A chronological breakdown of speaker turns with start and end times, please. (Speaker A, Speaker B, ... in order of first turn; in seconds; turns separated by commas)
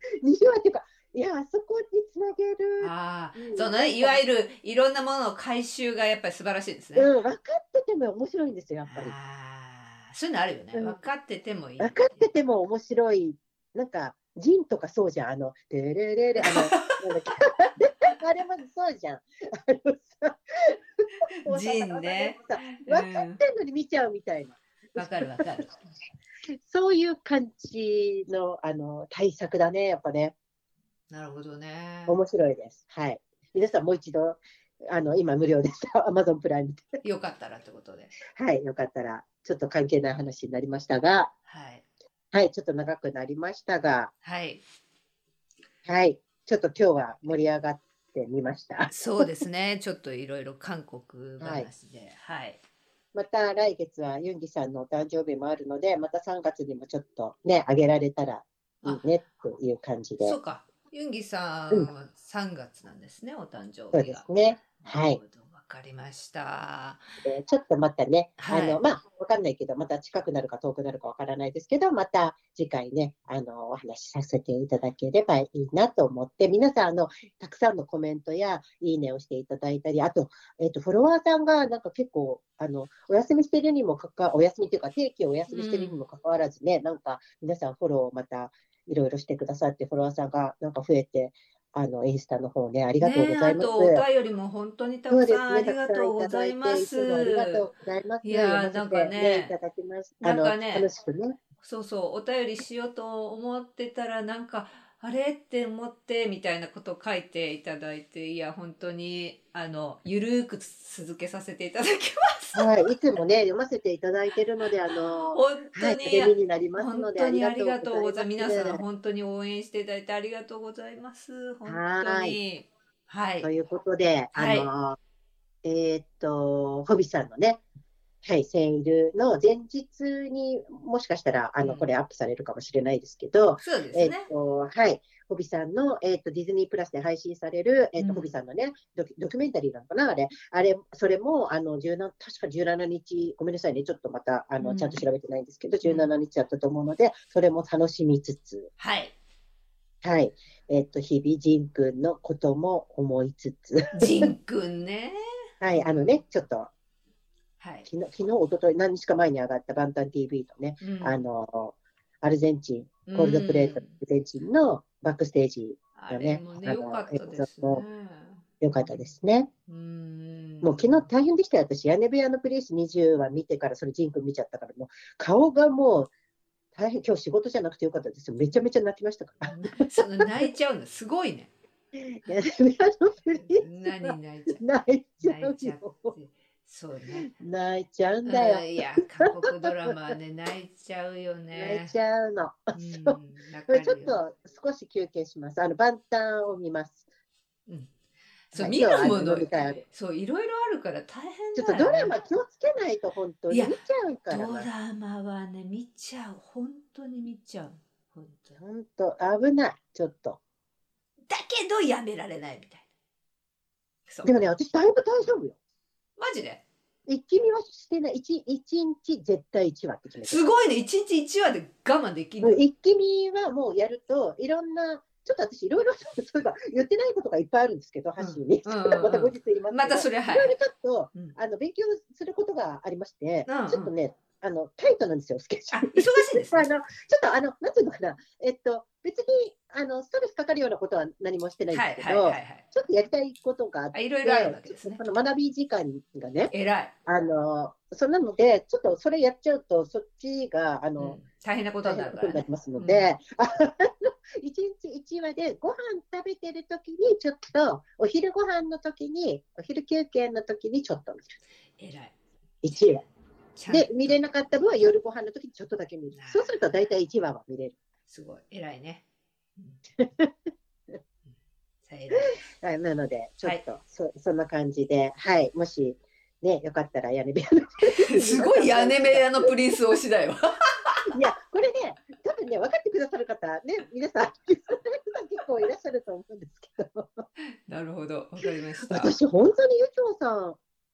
Speaker A: 0.2-4.2, Speaker B: 2.8-7.1, Speaker A: 7.0-9.2, Speaker B: 8.8-12.3, Speaker A: 10.7-11.0, Speaker A: 11.8-25.7, Speaker B: 16.4-17.0, Speaker B: 21.5-23.4, Speaker B: 25.0-25.7, Speaker A: 26.6-30.3, Speaker B: 31.1-32.2, Speaker A: 32.1-37.0, Speaker B: 37.0-38.1, Speaker A: 38.3-41.3, Speaker B: 41.5-41.8, Speaker A: 42.3-44.1, Speaker B: 44.2-44.6, Speaker A: 45.9-49.3, Speaker B: 48.9-52.6, Speaker A: 51.4-51.7, Speaker A: 53.1-60.4, Speaker B: 60.2-64.2, Speaker A: 63.9-65.2, Speaker B: 64.8-67.0, Speaker A: 67.2-94.0, Speaker B: 68.4-68.8, Speaker B: 85.5-86.0, Speaker B: 93.0-97.6, Speaker A: 95.1-101.4, Speaker B: 98.2-99.5, Speaker B: 100.2-100.9, Speaker B: 101.6-112.7, Speaker A: 112.5-118.8, Speaker B: 115.3-123.5, Speaker A: 121.7-122.4, Speaker A: 123.4-125.0, Speaker B: 124.3-124.7, Speaker A: 125.6-127.6, Speaker A: 128.2-148.7, Speaker B: 131.6-131.9, Speaker B: 133.6-134.3, Speaker B: 138.0-138.3, Speaker B: 144.6-145.0, Speaker B: 145.8-146.1, Speaker B: 148.8-149.1, Speaker A: 150.0-154.3, Speaker B: 153.9-155.2, Speaker A: 155.6-156.7, Speaker B: 155.7-156.2, Speaker B: 157.6-157.9, Speaker A: 157.8-167.8, Speaker B: 160.8-161.2, Speaker B: 163.1-163.9, Speaker B: 165.9-169.1, Speaker A: 168.6-169.5, Speaker B: 169.7-171.1, Speaker A: 170.6-176.1, Speaker A: 176.8-180.3, Speaker B: 179.5-181.5, Speaker A: 182.0-186.2, Speaker B: 183.5-184.7, Speaker B: 185.2-187.3, Speaker A: 187.3-189.9, Speaker B: 188.3-191.9, Speaker A: 191.5-193.2, Speaker B: 192.7-194.2, Speaker A: 193.7-197.1, Speaker B: 198.5-202.1, Speaker A: 198.5-199.8, Speaker A: 201.6-204.7, Speaker B: 203.5-203.8, Speaker B: 204.3-208.6, Speaker A: 208.6-210.4, Speaker B: 211.3-212.8, Speaker A: 214.2-215.6, Speaker B: 216.2-216.6, Speaker A: 217.1-220.5, Speaker B: 220.2-222.6, Speaker A: 222.4-246.5, Speaker B: 228.2-230.5, Speaker B: 233.5-233.9, Speaker B: 235.7-236.7, Speaker B: 241.7-242.6, Speaker B: 243.9-245.0, Speaker B: 246.5-246.9, Speaker A: 247.1-251.2, Speaker B: 251.0-253.1, Speaker A: 251.8-261.4, Speaker B: 261.8-262.1, Speaker A: 262.6-263.1, Speaker B: 263.6-264.3, Speaker A: 263.7-267.8, Speaker B: 266.1-266.7, Speaker B: 268.1-269.0, Speaker A: 270.0-270.3, Speaker B: 271.9-272.3, Speaker A: 272.2-279.5, Speaker B: 278.0-281.1, Speaker A: 281.1-287.3, Speaker B: 287.7-289.1, Speaker A: 288.4-290.6